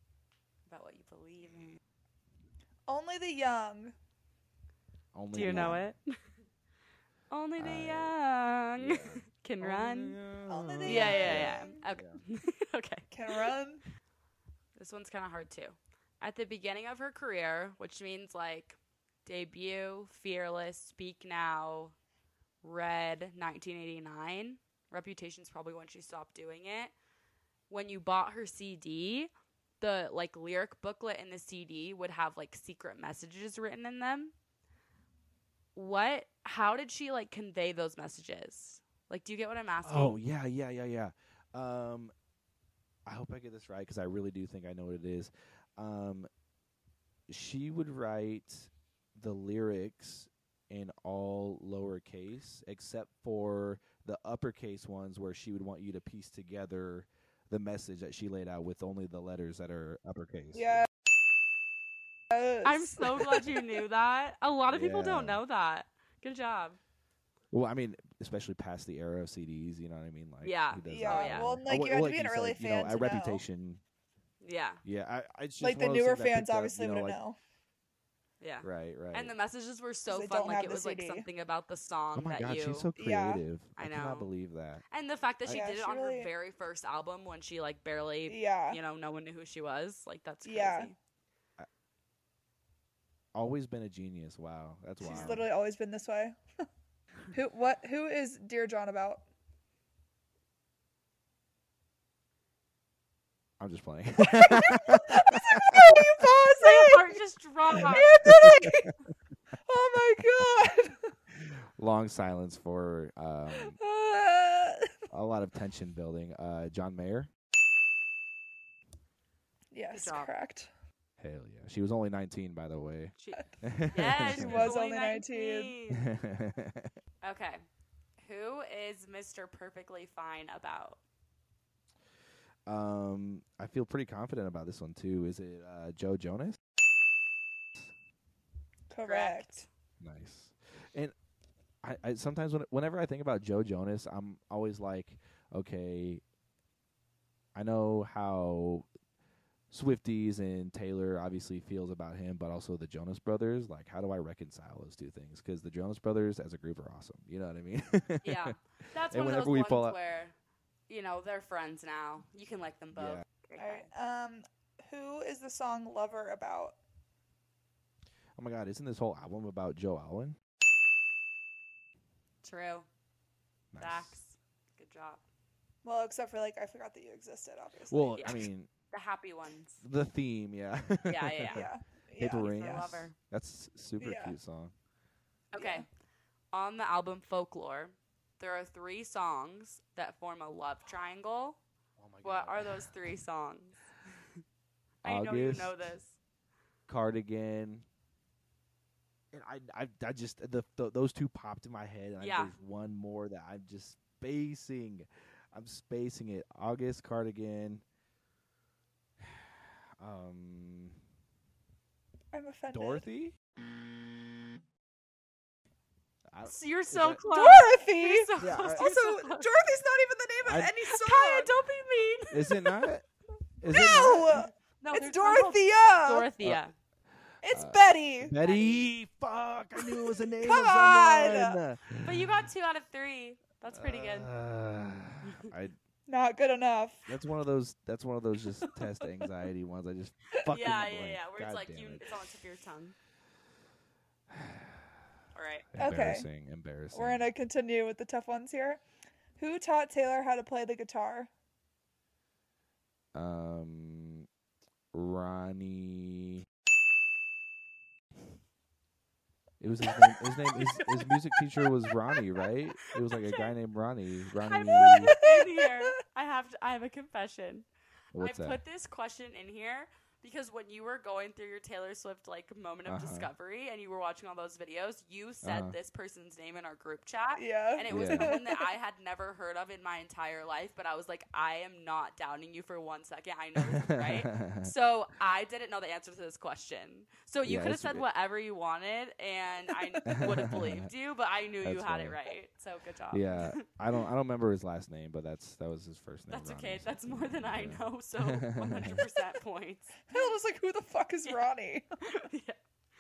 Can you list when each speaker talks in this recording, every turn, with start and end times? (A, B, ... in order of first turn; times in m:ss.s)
0:00.7-0:01.8 A
0:02.9-0:04.0 B
0:05.1-0:05.8 C
0:05.3-0:06.1 A
0:05.4-0:05.8 B
0:07.3-0:10.2 A
0:07.6-0:08.2 C
0:08.8-0:12.2 C
0:10.5-0:11.8 B
0:10.8-0:13.5 A
0:13.1-0:13.8 B
0:14.8-0:22.0 A
0:22.6-0:26.9 A
0:27.7-0:34.3 A
0:35.8-0:40.2 A
0:39.8-0:42.1 C
0:43.1-0:46.3 C
0:47.3-1:00.9 C
1:00.5-1:00.9 B
1:02.3-1:03.8 B
1:02.6-1:06.8 A
1:04.7-1:05.4 C
1:07.5-1:13.8 C
1:10.4-1:11.6 A
1:10.9-1:13.4 B
1:14.4-1:14.8 A
1:14.8-1:17.2 C
1:15.6-1:17.4 B
1:18.4-1:22.9 A
1:18.6-1:19.3 C
1:20.1-1:21.3 B
1:22.2-1:24.8 C
1:23.0-1:23.4 B
1:23.8-1:24.3 A
1:24.9-1:31.0 A
1:25.5-1:26.3 B
1:28.3-1:28.8 B
1:30.4-1:30.9 B
1:33.3-1:35.5 C
1:35.0-1:36.4 B
1:35.0-1:35.3 A
1:37.3-1:39.2 B
1:43.6-1:46.3 C
1:44.2-1:47.2 B
1:46.6-1:48.1 A
1:47.7-1:49.0 B
1:48.2-1:48.9 C
1:49.6-1:51.1 B
1:51.3-1:53.8 C
1:53.6-1:55.0 B
1:55.1-1:57.3 C
1:59.7-2:00.7 B
1:59.9-2:00.3 A
2:01.2-2:04.7 C
2:03.2-2:06.0 A
2:04.1-2:05.8 B
2:05.9-2:06.9 C
2:07.2-2:07.6 A
2:08.2-2:11.0 A
2:12.7-2:16.6 C
2:18.9-2:19.7 B
2:19.0-2:19.7 A
2:20.0-2:21.1 C
2:21.8-2:26.2 C
2:27.6-2:28.9 C
2:29.7-2:38.6 C
2:38.2-2:40.4 A
2:39.1-2:40.0 C
2:40.9-2:43.9 A
2:42.9-2:43.2 C
2:43.6-2:46.8 B
2:48.4-2:50.4 C
2:52.4-2:52.9 A
2:53.7-2:54.2 C
2:53.8-2:55.2 A
2:55.8-2:58.4 B
2:57.9-2:58.7 C
2:58.2-2:59.8 A
2:59.8-3:04.7 C
3:01.0-3:01.7 A
3:01.5-3:02.6 B
3:02.3-3:03.2 A
3:04.0-3:04.4 B
3:05.5-3:05.9 A
3:05.6-3:05.9 B
3:06.5-3:11.6 A
3:12.0-3:12.8 C
3:12.2-3:13.8 A
3:15.0-3:16.2 A
3:15.0-3:15.9 C
3:16.9-3:17.9 C
3:19.3-3:27.8 C
3:22.2-3:22.6 A
3:29.2-3:31.0 C
3:32.3-3:33.0 B
3:32.7-3:33.4 C
3:36.3-3:37.2 C
3:36.4-3:39.5 A
3:37.3-3:41.6 B
3:38.4-3:38.9 C
3:40.4-3:40.7 C
3:40.9-3:42.8 A
3:42.3-3:43.0 C
3:43.6-3:44.5 C
3:43.6-3:46.3 B
3:44.8-3:46.7 A
3:47.4-3:48.4 B
3:47.5-3:52.3 C
3:48.4-3:48.9 A
3:50.4-3:51.6 B
3:52.0-3:54.3 A
3:53.7-3:55.8 C
3:56.1-3:57.1 B
3:57.1-4:02.0 C
4:00.5-4:03.0 A
4:04.3-4:04.9 C
4:05.3-4:05.7 A
4:05.7-4:07.3 C
4:05.8-4:06.3 B
4:06.9-4:08.8 B
4:09.4-4:11.3 B
4:13.1-4:14.3 C
4:14.9-4:16.5 C
4:19.6-4:25.2 C
4:23.0-4:23.5 A
4:24.4-4:53.6 A
4:25.2-4:25.6 B
4:28.1-4:28.6 C
4:32.9-4:33.3 C
4:35.4-4:35.8 C
4:37.4-4:38.7 B
4:37.9-4:38.3 C
4:43.6-4:44.7 C
4:47.4-4:48.0 C
4:50.0-4:50.9 C
4:51.6-4:52.2 C
4:53.1-4:59.1 C
4:56.3-5:00.3 A
5:00.1-5:01.9 B
5:02.0-5:02.6 A